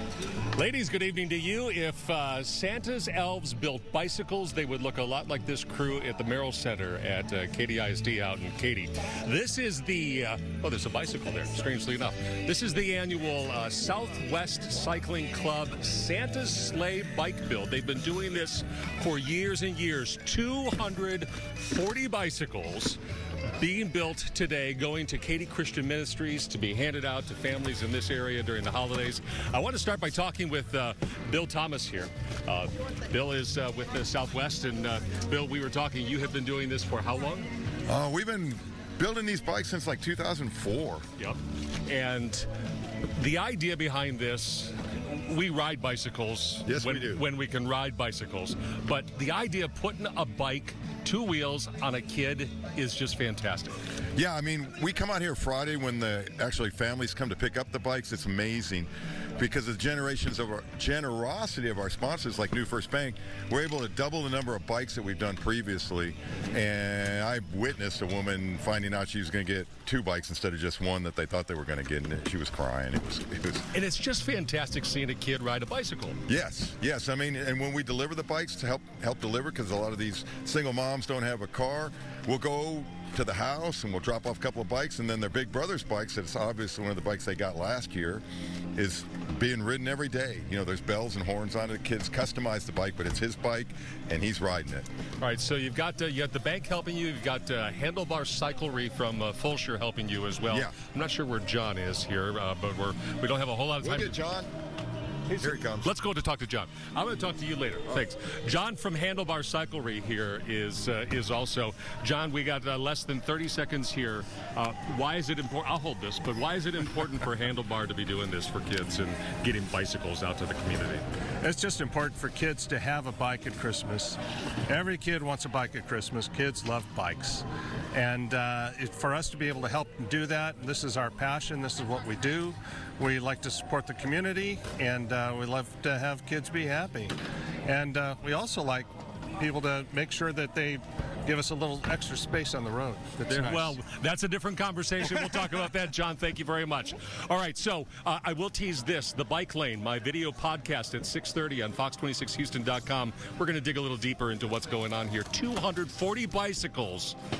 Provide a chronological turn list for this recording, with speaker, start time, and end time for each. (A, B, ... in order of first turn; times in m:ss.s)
0:00.6-0:23.0 A
0:23.6-0:37.5 A
0:37.9-0:41.0 B
0:41.2-0:42.5 A
0:43.2-0:53.8 A
0:46.6-0:47.2 B
0:54.2-1:13.6 B
1:13.7-1:16.2 A
1:16.3-1:28.2 B
1:28.8-1:34.9 B
1:35.2-1:44.2 A
1:40.5-1:40.7 B
1:43.8-1:44.5 B
1:45.3-2:01.0 A
1:45.4-1:45.9 B
2:01.4-2:17.1 C
2:17.6-2:23.8 C
2:23.3-2:37.2 A